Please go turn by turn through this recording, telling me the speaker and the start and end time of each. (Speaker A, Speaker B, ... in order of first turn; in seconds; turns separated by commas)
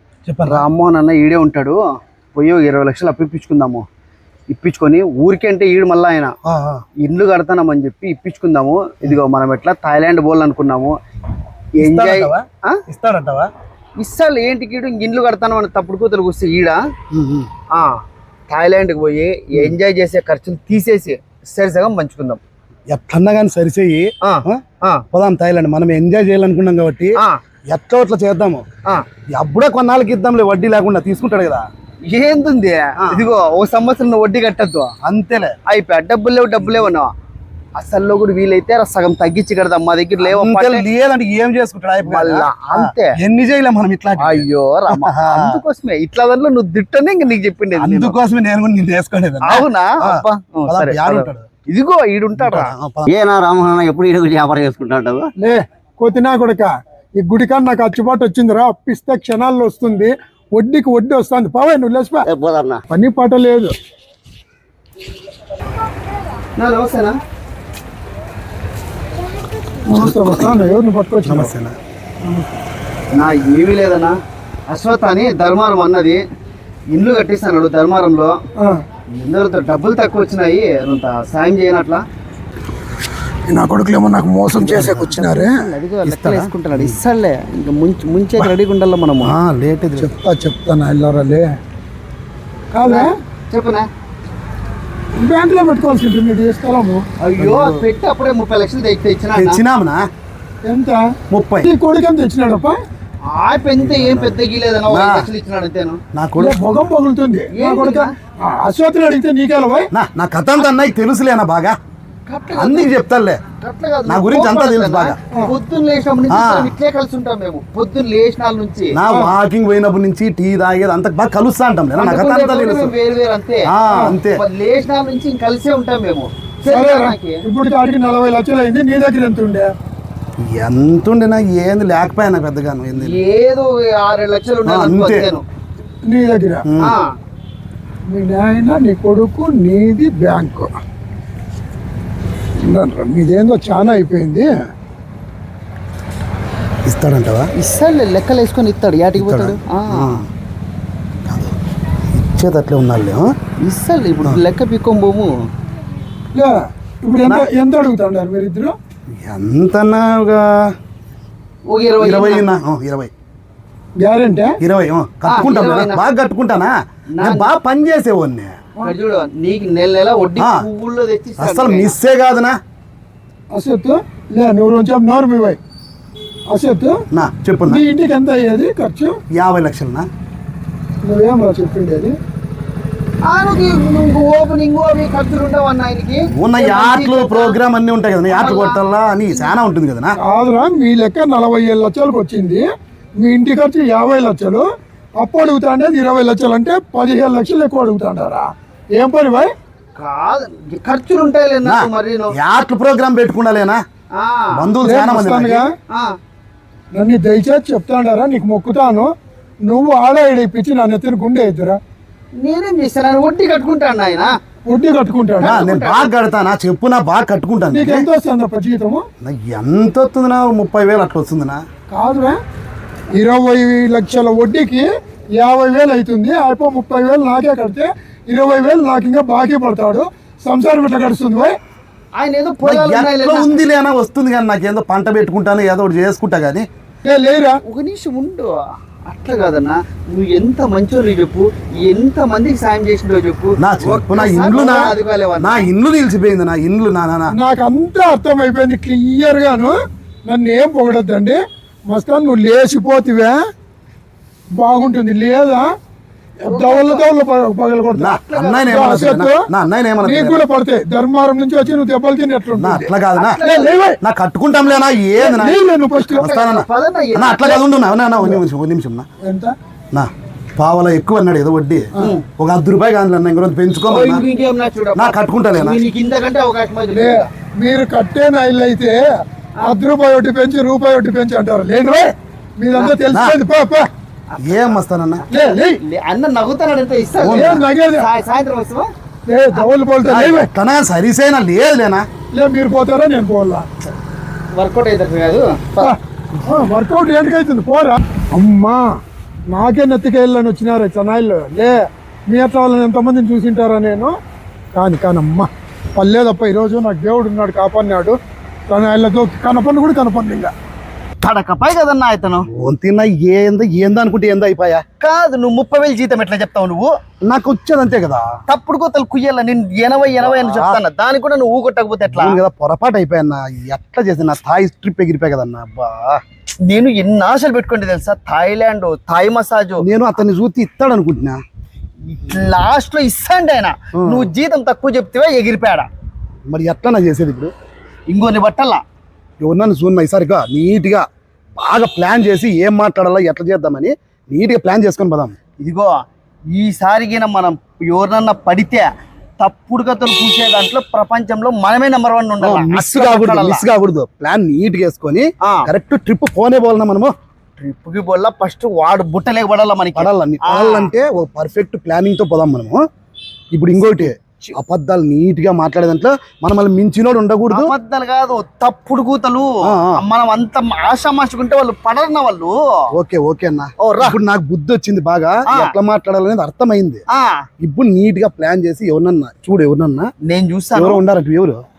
Speaker A: 0.3-0.6, Speaker B: 0.5-1.8, Speaker B: 2.3-3.8, Speaker B: 4.5-6.3, Speaker A: 6.4-6.8, Speaker B: 7.0-10.9, Speaker B: 11.8-12.8, Speaker A: 11.8-13.5, Speaker B: 14.0-16.8, Speaker A: 17.1-17.5, Speaker B: 17.7-22.4, Speaker A: 22.9-28.6, Speaker B: 24.2-25.0, Speaker A: 29.3-31.6, Speaker B: 32.1-34.9, Speaker A: 35.0-35.5, Speaker B: 35.6-37.1, Speaker B: 37.8-40.8, Speaker A: 40.2-45.6, Speaker B: 42.0-43.1, Speaker B: 44.2-48.1, Speaker A: 47.8-51.5, Speaker B: 49.4-52.7, Speaker A: 52.4-53.1, Speaker C: 53.1-55.3, Speaker D: 55.4-62.3, Speaker C: 62.2-62.8, Speaker D: 62.9-63.7, Speaker B: 66.6-67.1, Speaker D: 69.9-71.5, Speaker A: 69.9-70.6, Speaker A: 71.2-71.7, Speaker D: 72.2-72.5, Speaker B: 73.1-74.1, Speaker B: 74.7-76.2, Speaker B: 76.9-78.4, Speaker B: 79.1-82.0, Speaker D: 83.5-85.5, Speaker A: 84.5-85.3, Speaker B: 85.1-89.3, Speaker A: 86.0-87.0, Speaker A: 89.2-90.1, Speaker D: 90.0-91.5, Speaker D: 92.7-93.1, Speaker B: 92.8-93.9, Speaker D: 95.2-97.0, Speaker B: 97.2-99.6, Speaker A: 97.4-97.8, Speaker A: 99.3-100.1, Speaker D: 100.7-101.0, Speaker A: 101.3-101.7, Speaker D: 101.6-102.8, Speaker B: 103.3-106.0, Speaker A: 103.8-104.4, Speaker A: 104.9-105.3, Speaker A: 106.1-106.6, Speaker D: 106.4-109.9, Speaker B: 107.5-108.1, Speaker A: 109.9-111.7, Speaker B: 112.3-112.9, Speaker A: 112.5-113.4, Speaker B: 113.6-118.9, Speaker A: 114.1-115.2, Speaker A: 116.3-116.7, Speaker A: 118.9-122.9, Speaker B: 122.0-123.7, Speaker A: 123.7-124.4, Speaker B: 124.3-127.4, Speaker D: 126.7-129.7, Speaker A: 130.4-133.2, Speaker B: 133.0-135.4, Speaker A: 134.7-135.3, Speaker D: 136.1-136.7, Speaker A: 136.6-136.9, Speaker B: 136.8-137.1, Speaker D: 138.1-140.7, Speaker D: 142.7-144.5, Speaker A: 146.8-147.5, Speaker B: 147.6-150.2, Speaker A: 149.2-150.3, Speaker A: 151.3-151.6, Speaker A: 152.1-153.3, Speaker B: 153.6-155.3, Speaker D: 156.3-158.7, Speaker A: 159.2-160.7, Speaker B: 161.7-162.4, Speaker A: 162.0-163.1, Speaker D: 164.0-164.6, Speaker A: 164.6-168.5, Speaker B: 165.3-166.0, Speaker B: 167.1-167.5, Speaker B: 168.8-171.9, Speaker A: 170.4-170.6, Speaker A: 171.4-172.6, Speaker D: 173.5-175.6, Speaker D: 176.5-177.0, Speaker A: 177.1-177.8, Speaker D: 177.7-179.2, Speaker A: 179.3-180.1, Speaker D: 181.0-182.1, Speaker B: 183.3-187.6, Speaker A: 186.3-190.2, Speaker B: 188.3-189.5, Speaker D: 190.2-192.6, Speaker D: 193.2-194.6, Speaker D: 195.2-199.5, Speaker B: 200.0-202.3, Speaker A: 201.6-203.8, Speaker B: 204.2-204.7, Speaker A: 204.5-205.6, Speaker D: 204.8-205.7, Speaker D: 206.9-209.1, Speaker D: 209.7-211.8, Speaker B: 212.4-214.3, Speaker D: 214.7-215.6, Speaker B: 215.4-216.1, Speaker A: 215.4-218.0, Speaker D: 217.7-219.0, Speaker A: 219.2-221.6, Speaker D: 221.9-222.3, Speaker D: 223.2-224.8, Speaker D: 225.4-231.5, Speaker B: 232.2-233.5, Speaker A: 232.6-236.7, Speaker D: 237.0-237.6, Speaker B: 237.6-245.7, Speaker A: 243.6-247.3, Speaker D: 247.3-253.4, Speaker D: 254.6-255.7, Speaker D: 256.5-259.4, Speaker B: 256.5-257.0, Speaker A: 257.9-260.4, Speaker B: 258.0-258.9, Speaker D: 260.0-264.0, Speaker A: 262.6-263.4, Speaker B: 263.1-263.7, Speaker A: 264.0-265.6, Speaker D: 265.2-266.3, Speaker B: 266.2-267.6, Speaker A: 266.2-269.1, Speaker D: 269.2-269.5, Speaker A: 269.9-274.2, Speaker B: 273.9-277.3, Speaker A: 274.9-275.8, Speaker D: 276.9-279.0, Speaker D: 279.6-283.9, Speaker B: 284.3-284.8, Speaker A: 284.4-285.2, Speaker D: 285.3-285.8, Speaker B: 285.3-288.9, Speaker A: 287.2-287.6, Speaker D: 287.3-288.1, Speaker D: 289.3-290.5, Speaker A: 290.0-292.0, Speaker D: 292.3-293.7, Speaker B: 294.5-295.9, Speaker D: 295.8-298.8, Speaker D: 299.5-304.1, Speaker D: 304.7-308.2, Speaker D: 308.7-310.5, Speaker B: 311.2-312.4, Speaker A: 312.5-314.8, Speaker B: 315.0-316.9, Speaker A: 317.2-318.3, Speaker B: 318.5-322.4, Speaker A: 320.1-320.8, Speaker A: 322.1-326.2, Speaker B: 326.6-329.8, Speaker A: 329.8-331.4, Speaker B: 332.1-335.9, Speaker A: 334.0-334.3, Speaker A: 336.5-337.5, Speaker B: 338.1-338.8, Speaker A: 339.4-341.1, Speaker A: 341.6-345.4, Speaker B: 345.6-353.6, Speaker A: 352.4-357.1, Speaker B: 355.4-355.7, Speaker B: 357.6-360.9, Speaker A: 359.9-362.8, Speaker A: 363.5-367.7, Speaker B: 363.8-364.5, Speaker B: 367.5-372.6, Speaker A: 369.6-370.0, Speaker A: 372.9-377.0, Speaker B: 373.8-374.2, Speaker B: 377.1-377.4, Speaker A: 377.6-380.1, Speaker B: 380.2-381.0, Speaker A: 380.8-381.6